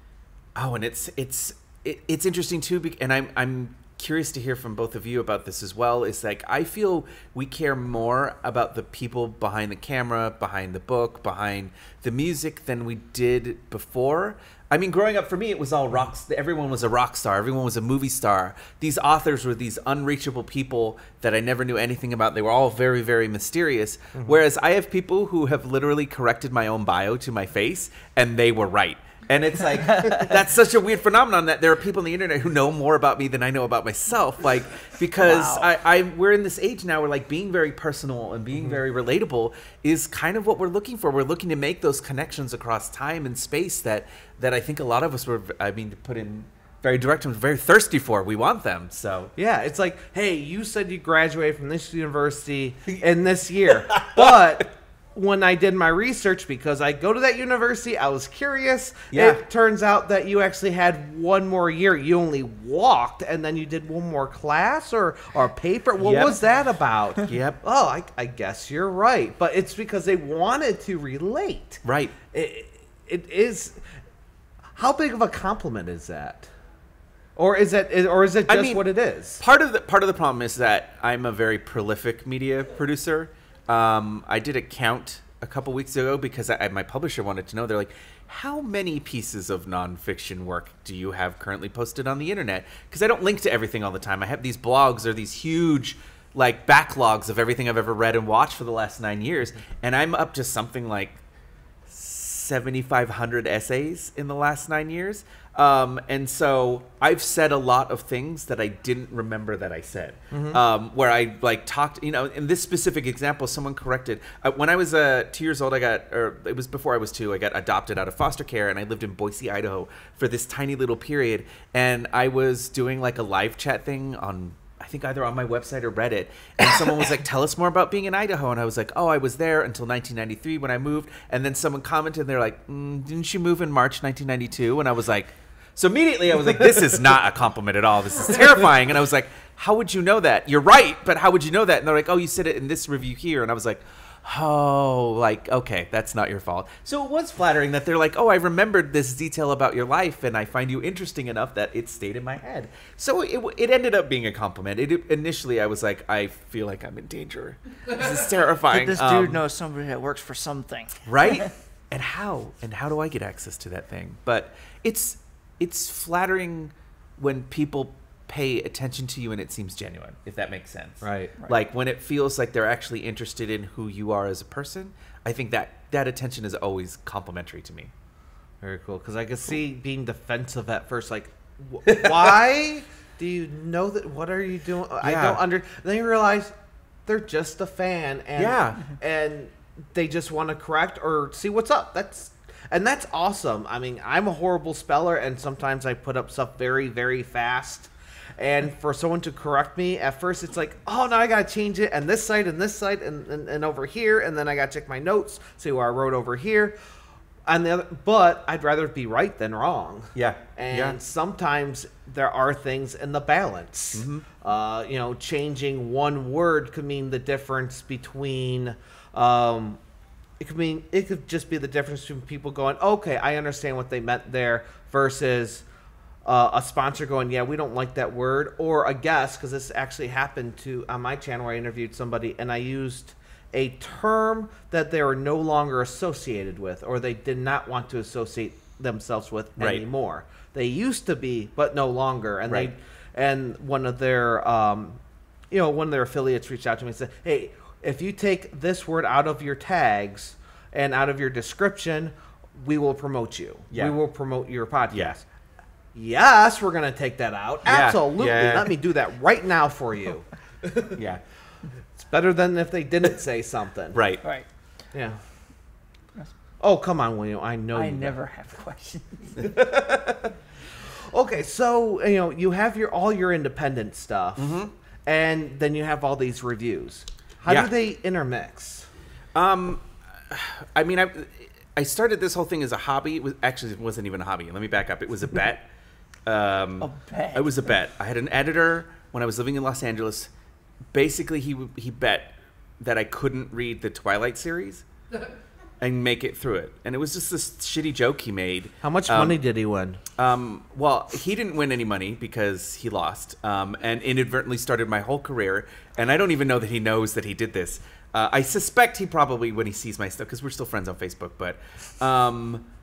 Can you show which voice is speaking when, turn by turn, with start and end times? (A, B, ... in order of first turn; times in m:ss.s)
0:00.6-0:49.3 A
0:35.2-0:35.6 B
0:49.4-1:13.8 C
0:54.0-0:54.2 A
0:59.1-0:59.4 A
1:06.0-1:06.4 A
1:07.2-1:07.6 A
1:11.8-1:12.2 A
1:14.8-1:16.5 C
1:17.4-1:19.4 C
1:18.5-1:18.8 A
1:19.4-1:41.2 A
1:41.9-2:39.4 A
1:50.3-1:50.6 C
2:38.7-2:41.5 B
2:41.1-2:57.9 A
2:51.0-2:51.4 C
2:58.6-3:06.5 C
3:01.9-3:02.3 A
3:05.0-3:05.4 A
3:07.1-3:26.8 C
3:08.4-3:08.8 A
3:27.5-3:39.8 C
3:30.2-3:31.0 A
3:33.9-3:34.3 A
3:40.4-3:45.6 C
3:46.2-4:05.0 C
3:59.6-3:59.8 A
4:05.5-4:15.2 C
4:13.7-4:14.0 A
4:14.9-4:15.2 A
4:16.0-4:21.0 C
4:17.6-4:18.7 A
4:21.0-4:21.2 A
4:22.0-4:24.0 C
4:23.9-4:24.2 A
4:24.9-4:25.2 C
4:26.6-4:28.2 C
4:27.7-4:29.4 B
4:29.4-4:30.3 C
4:31.1-4:38.9 C
4:34.4-4:34.7 A
4:37.5-4:37.7 A
4:39.3-4:45.7 A
4:46.3-4:50.3 A
4:46.8-4:47.6 B
4:50.9-4:54.8 A
4:55.8-4:59.4 A
4:58.8-5:00.0 C
5:00.2-5:12.7 A